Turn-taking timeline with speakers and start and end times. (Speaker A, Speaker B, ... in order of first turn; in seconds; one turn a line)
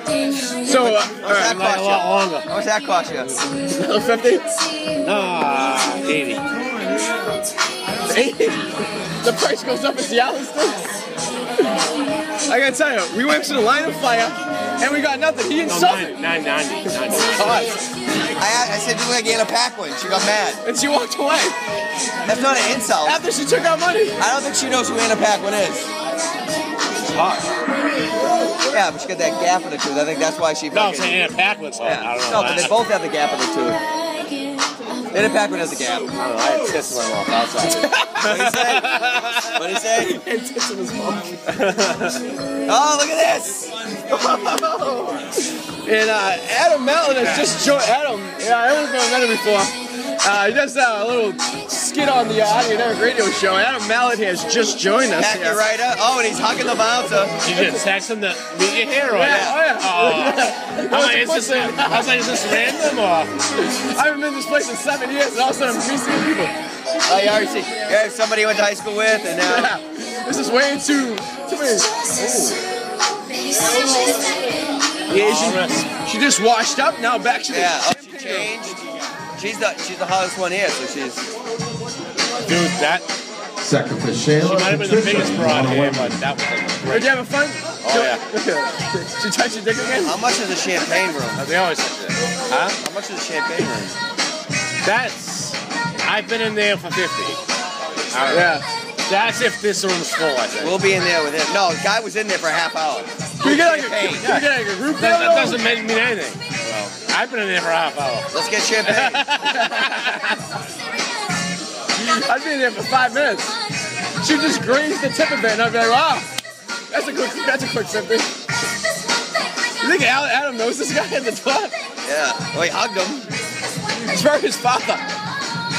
Speaker A: 0.6-1.5
Speaker B: 0.7-3.4
Speaker C: 1.2-2.5
Speaker A: 3.7-4.5
Speaker C: 5.0-6.4
Speaker A: 8.1-8.7
Speaker A: 9.2-10.8
Speaker A: 12.5-16.1
Speaker C: 15.7-17.7
Speaker A: 17.1-17.7
Speaker B: 18.4-20.6
Speaker A: 20.6-21.6
Speaker B: 22.2-23.2
Speaker A: 23.0-24.2
Speaker B: 24.2-25.9
Speaker C: 27.0-27.5
Speaker B: 28.7-33.8
Speaker C: 30.7-32.8
Speaker B: 35.1-36.1
Speaker C: 36.1-39.5
Speaker A: 37.9-38.2
Speaker B: 38.2-40.2
Speaker A: 40.0-41.6
Speaker C: 41.6-42.1
Speaker B: 42.6-45.2
Speaker A: 45.8-55.6
Speaker C: 47.0-47.5
Speaker B: 55.1-57.3
Speaker C: 57.4-63.3
Speaker A: 57.5-57.8
Speaker A: 59.1-62.6
Speaker B: 59.2-59.6
Speaker A: 63.6-66.5
Speaker B: 67.1-69.7
Speaker A: 69.4-71.9
Speaker C: 72.2-72.5
Speaker A: 75.1-78.5
Speaker C: 75.1-75.9
Speaker B: 77.5-81.2
Speaker C: 82.4-83.0
Speaker D: 83.6-86.2
Speaker C: 84.4-87.1
Speaker A: 86.9-90.1
Speaker C: 87.8-88.2
Speaker B: 90.0-91.4
Speaker C: 91.3-92.7
Speaker B: 92.5-94.0
Speaker C: 94.8-97.4
Speaker C: 98.1-98.5
Speaker A: 98.3-98.6
Speaker C: 99.1-100.8
Speaker B: 100.6-104.3
Speaker A: 103.4-105.6
Speaker C: 104.2-108.3
Speaker B: 108.3-109.3
Speaker C: 108.8-110.1
Speaker A: 109.5-110.1
Speaker A: 112.0-113.5
Speaker A: 114.2-116.3
Speaker A: 116.9-118.3
Speaker A: 119.8-121.7
Speaker B: 122.0-123.3
Speaker A: 124.0-125.0